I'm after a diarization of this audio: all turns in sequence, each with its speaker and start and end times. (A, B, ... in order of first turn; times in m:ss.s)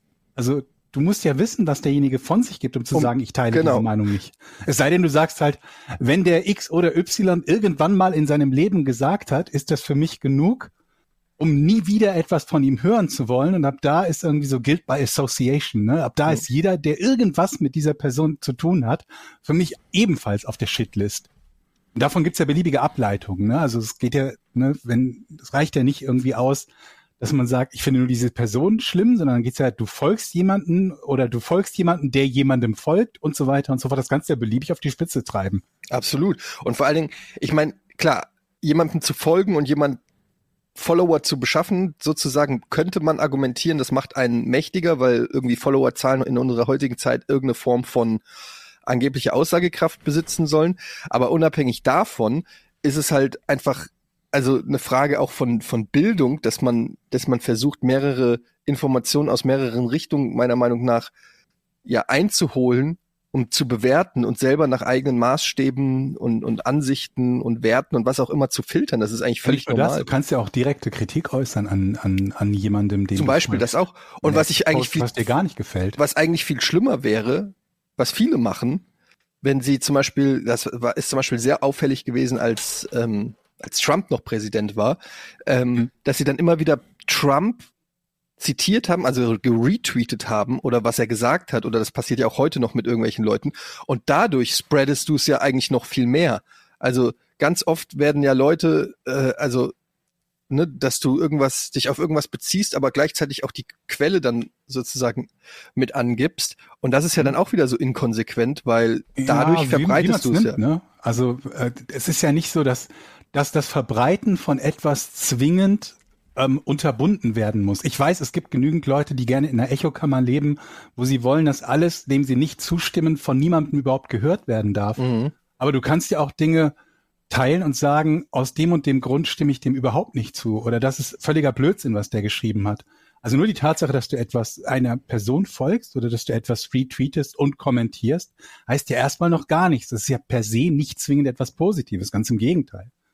0:00.4-0:10.7 A
0:02.9-0:03.9 B
0:11.4-0:21.3 A
0:21.9-0:26.7 A
0:27.2-0:35.6 A
0:35.9-0:40.0 B
0:40.8-0:48.2 B
0:48.8-1:01.1 B
1:01.8-1:10.1 B
1:09.4-1:13.7 A
1:13.2-1:15.3 B
1:14.2-1:16.0 A
1:16.0-1:18.8 B
1:19.4-1:27.7 B
1:28.4-1:39.7 B
1:40.5-1:50.6 B
1:49.2-2:05.0 A
2:05.0-2:05.3 B
2:05.6-2:06.7 A
2:07.3-2:22.9 A